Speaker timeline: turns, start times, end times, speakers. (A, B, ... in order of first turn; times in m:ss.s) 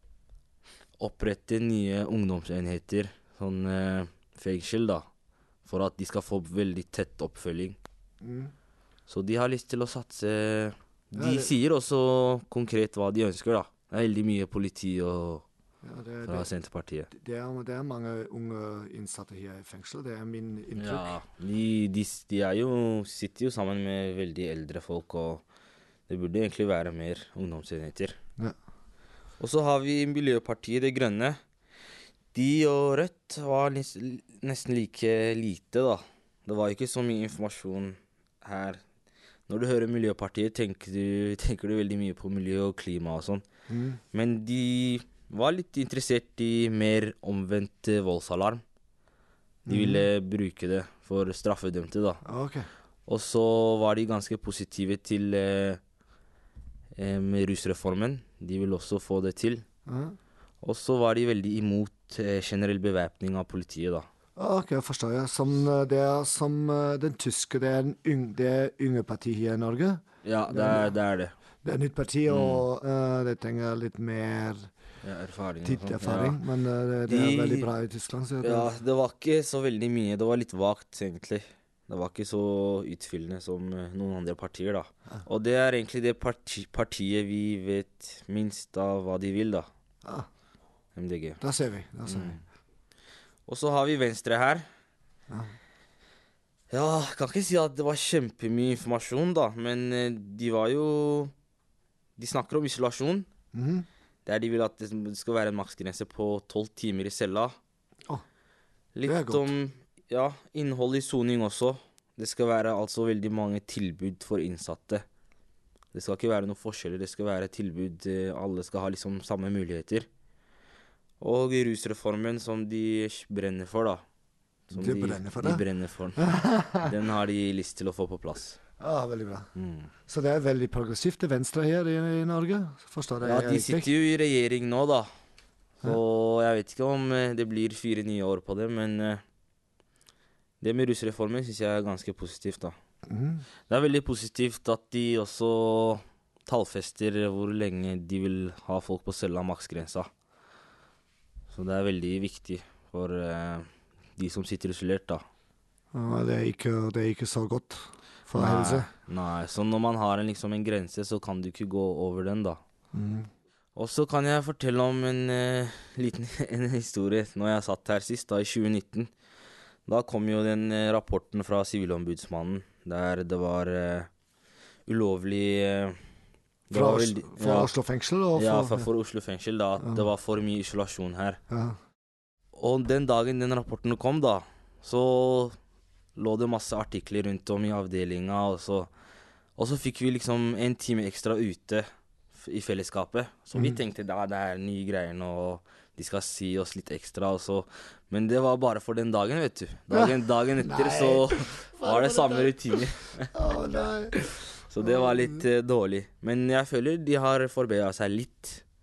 0:01.0-0:05.0 A
0:05.6-0:07.8 A
0:08.2-0:08.5 B
0:09.1-0:15.4 A
0:11.2-0:11.5 B
0:15.8-0:16.5 B
0:16.3-0:17.1 A
0:17.1-0:21.1 B
0:20.8-0:25.4 A
0:26.1-0:28.2 A
0:29.4-0:31.4 A
0:32.3-0:38.8 A
0:39.5-0:43.4 A
0:43.7-0:44.0 B
0:44.1-0:48.6 A
0:49.7-0:50.0 B
0:49.7-0:52.2 A
0:52.2-0:52.7 B
0:53.1-0:55.8 A
0:57.0-0:59.6 A
0:59.9-1:00.2 B
1:00.6-1:04.1 A
1:04.4-1:10.9 B
1:10.2-1:11.3 A
1:11.6-1:14.7 B
1:12.3-1:12.6 A
1:15.0-1:16.4 A
1:15.6-1:18.7 B
1:17.1-1:17.7 A
1:18.4-1:29.7 A
1:31.0-1:31.4 A
1:31.4-1:32.3 B
1:32.1-1:32.4 A
1:33.5-1:34.7 A
1:35.3-1:35.6 B
1:36.7-1:41.3 A
1:42.2-1:43.3 A
1:43.5-1:43.9 B
1:44.3-1:47.6 A
1:49.0-1:55.0 A
1:49.0-1:49.4 B
1:55.9-2:00.1 A
2:01.2-2:04.0 A
2:04.7-2:08.6 A
2:04.7-2:05.6 B
2:06.2-2:06.9 B
2:08.8-2:09.5 B
2:09.6-2:09.9 A
2:10.1-2:13.9 B
2:13.2-2:15.1 A
2:15.8-2:19.2 A
2:20.6-2:22.8 A
2:23.1-2:23.4 B
2:23.7-2:30.1 A
2:31.5-2:35.2 A
2:35.9-2:38.9 B
2:38.4-2:42.6 A
2:42.9-2:43.3 B
2:43.8-2:49.1 A
2:49.9-2:54.1 A
2:54.9-2:56.0 A
2:56.7-2:57.7 A
2:56.7-2:58.9 B
2:58.4-3:01.4 A
3:01.5-3:01.8 B
3:02.6-3:05.6 A
3:06.2-3:08.9 A
3:09.6-3:23.3 A
3:13.5-3:13.8 B
3:19.9-3:24.3 B
3:24.2-3:28.6 A
3:24.8-3:25.4 B